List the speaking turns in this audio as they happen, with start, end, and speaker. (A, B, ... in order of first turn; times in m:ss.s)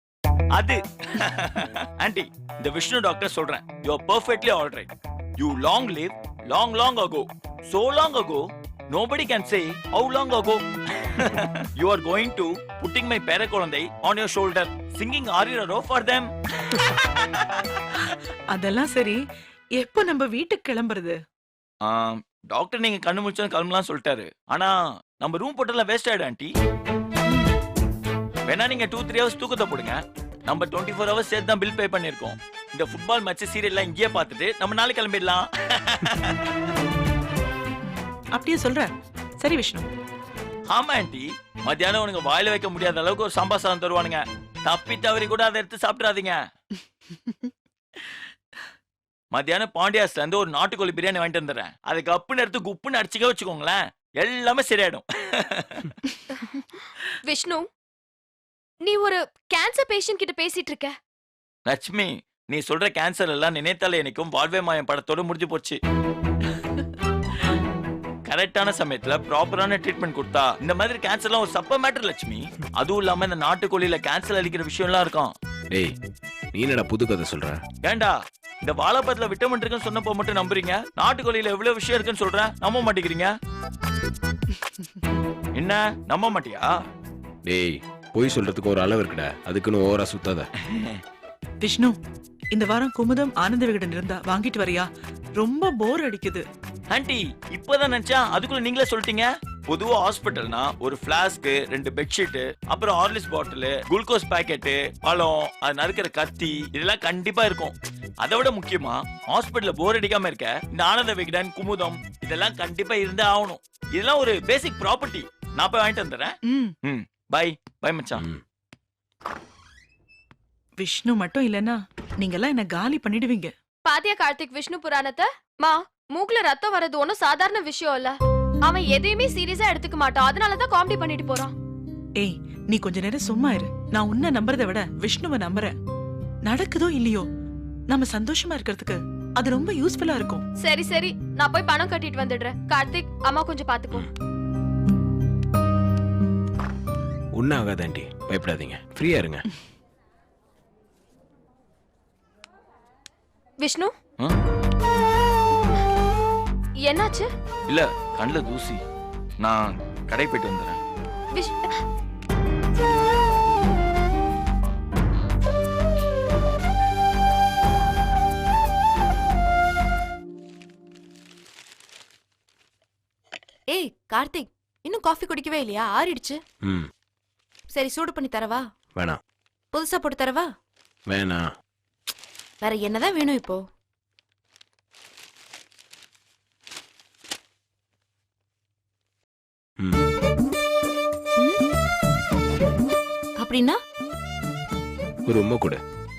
0:00.5-0:17.6 A
0:18.5-0:19.2 B
0:19.8-0:21.2 B
0:21.8-0:26.5 A
0:28.5-0:36.7 A
0:37.8-0:39.9 B
0:40.7-0:46.4 A
0:49.3-0:56.0 A
0:57.3-0:57.6 C
0:58.8-1:00.9 C
1:01.7-1:05.8 A
1:08.3-1:15.3 A
1:16.5-1:17.6 D
1:17.8-1:23.3 A
1:25.6-1:26.7 A
1:27.5-1:30.5 D
1:30.6-1:31.0 A
1:31.6-1:32.0 B
1:32.5-1:36.4 B
1:36.9-1:58.3 A
1:56.5-1:56.7 B
2:00.8-2:03.5 B
2:03.8-2:11.5 C
2:12.2-2:15.8 B
2:16.4-2:17.3 B
2:17.9-2:20.4 B
2:20.6-2:24.1 C
2:27.4-2:29.4 D
2:33.6-2:33.9 C
2:36.9-2:37.3 C
2:37.7-2:38.8 A
2:39.4-2:40.8 A
2:41.4-2:41.8 C
2:53.7-2:56.4 E
2:56.6-2:56.9 D
2:57.7-2:58.6 E
2:59.7-3:00.5 E
3:01.1-3:01.4 D
3:02.6-3:03.6 E
3:09.8-3:10.1 D
3:13.4-3:13.8 E
3:15.3-3:15.8 D